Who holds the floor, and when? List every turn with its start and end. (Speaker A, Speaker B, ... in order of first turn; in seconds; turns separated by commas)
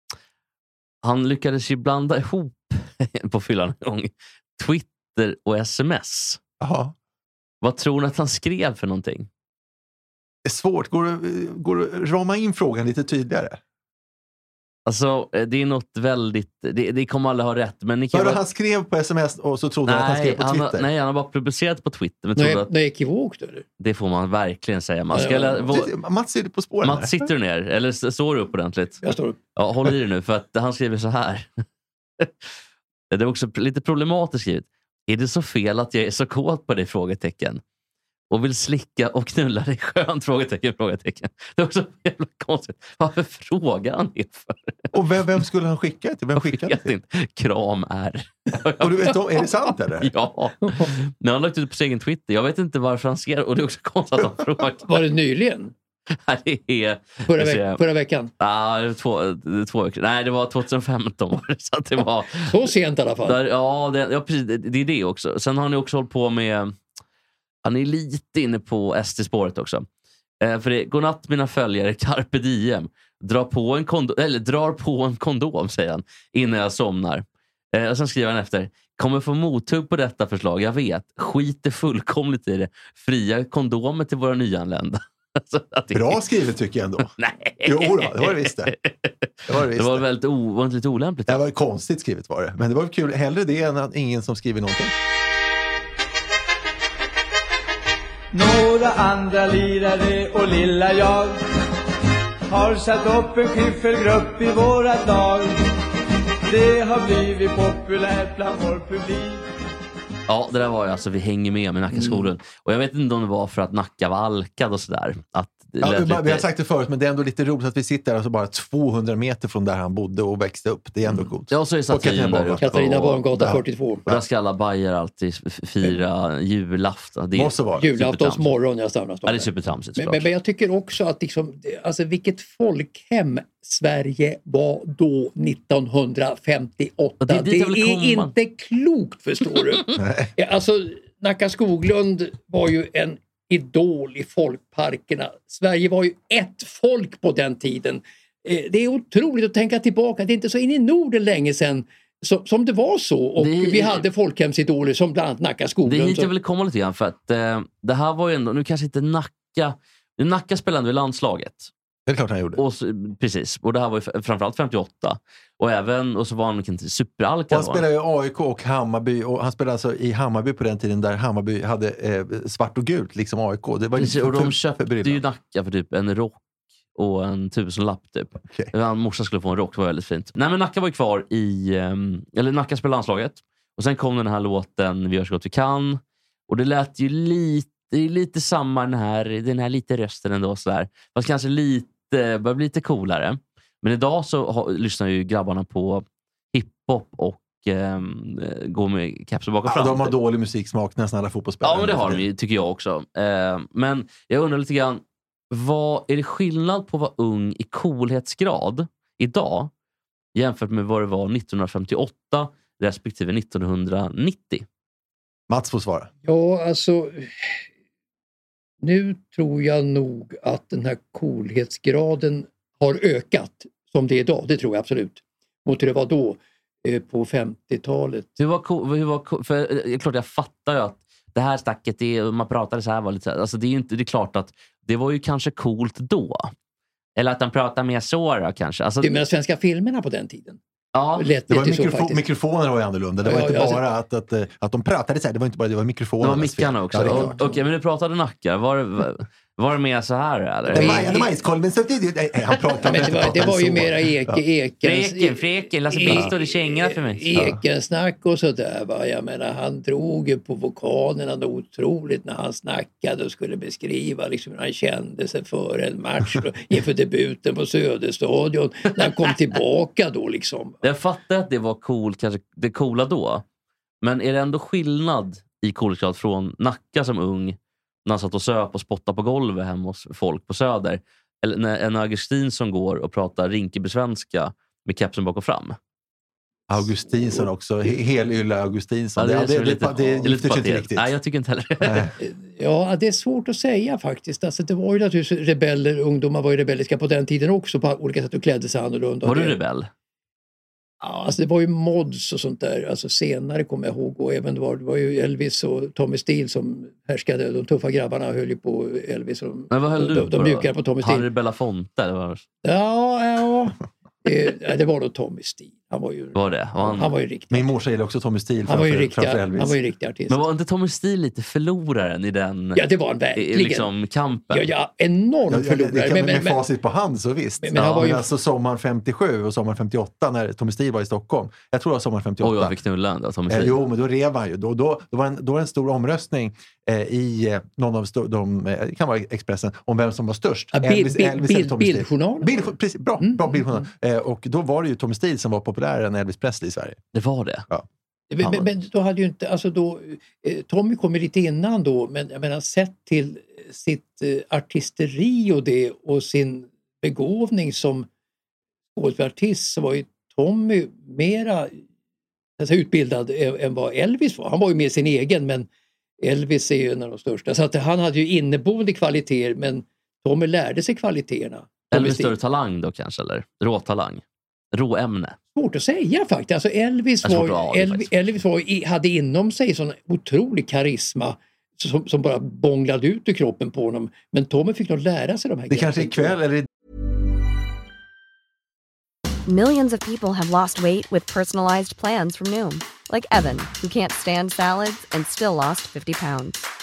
Speaker A: 1.0-6.4, Speaker B: 6.6-7.0, Speaker A: 7.6-9.3, Speaker B: 10.4-13.6, Speaker A: 14.9-18.4, Speaker B: 18.1-20.9, Speaker A: 19.9-22.7, Speaker C: 22.4-23.6, Speaker A: 23.8-25.9, Speaker C: 25.1-25.7, Speaker B: 25.6-27.3, Speaker A: 26.8-29.0, Speaker C: 29.0-29.4, Speaker A: 29.6-31.6, Speaker A: 32.2-32.5, Speaker A: 33.1-37.6, Speaker A: 38.3-44.9, Speaker B: 44.9-46.9, Speaker A: 46.4-49.1, Speaker B: 48.8-50.1, Speaker A: 50.0-54.9, Speaker C: 50.6-50.9, Speaker C: 54.8-55.7, Speaker A: 56.1-57.8, Speaker C: 57.3-58.3, Speaker A: 58.4-62.7, Speaker C: 62.4-63.4, Speaker A: 63.2-66.8, Speaker A: 67.6-69.9, Speaker A: 70.4-86.2, Speaker B: 85.9-87.1, Speaker A: 87.2-91.4, Speaker B: 87.6-88.7, Speaker B: 89.5-90.0, Speaker B: 91.3-94.9, Speaker D: 98.3-101.5, Speaker D: 102.5-105.6, Speaker D: 106.5-109.5, Speaker A: 110.3-116.5, Speaker C: 111.9-112.3, Speaker B: 115.8-122.7, Speaker A: 121.5-123.5, Speaker C: 122.6-124.1, Speaker B: 123.4-124.2, Speaker A: 124.1-128.5, Speaker B: 127.3-127.9, Speaker C: 127.8-156.3, Speaker A: 129.3-130.3, Speaker A: 137.2-138.3, Speaker B: 140.0-140.3, Speaker A: 153.4-154.0, Speaker A: 155.8-161.7, Speaker B: 162.1-162.6, Speaker A: 162.6-167.8, Speaker B: 167.5-175.2, Speaker A: 174.0-176.4, Speaker A: 176.9-200.2, Speaker B: 178.5-178.7, Speaker B: 199.7-202.2, Speaker A: 201.6-209.7, Speaker A: 210.3-214.7, Speaker B: 215.5-216.1, Speaker C: 216.2-217.5, Speaker C: 218.8-228.3, Speaker A: 228.4-236.5, Speaker A: 237.2-239.1, Speaker C: 239.0-240.6, Speaker A: 240.9-241.3, Speaker C: 241.2-242.2, Speaker B: 241.5-247.4, Speaker C: 243.2-243.8, Speaker A: 246.2-251.1, Speaker C: 247.0-247.6, Speaker B: 250.7-254.4, Speaker C: 250.7-251.3, Speaker C: 252.8-270.8, Speaker A: 254.8-257.5, Speaker A: 270.8-273.4, Speaker A: 274.0-285.8, Speaker B: 286.7-291.1, Speaker A: 289.2-292.1, Speaker B: 291.8-292.1, Speaker C: 292.2-299.6, Speaker A: 299.2-299.9, Speaker C: 301.0-311.3, Speaker A: 309.7-312.4, Speaker C: 312.6-317.7, Speaker A: 316.4-317.1, Speaker B: 317.5-319.8, Speaker C: 318.7-320.4, Speaker A: 320.3-322.8, Speaker C: 322.8-323.9, Speaker A: 323.4-324.7, Speaker C: 324.5-326.6, Speaker B: 325.5-332.8, Speaker C: 327.6-328.2, Speaker A: 327.8-328.1, Speaker A: 332.4-333.8, Speaker B: 333.5-347.0, Speaker C: 340.8-343.9, Speaker A: 347.1-347.7, Speaker C: 348.3-358.1, Speaker C: 358.9-361.8, Speaker C: 362.6-365.7, Speaker C: 366.2-372.3, Speaker A: 371.9-375.4, Speaker C: 375.6-386.4, Speaker A: 377.2-378.1, Speaker B: 385.7-386.7, Speaker E: 389.5-396.7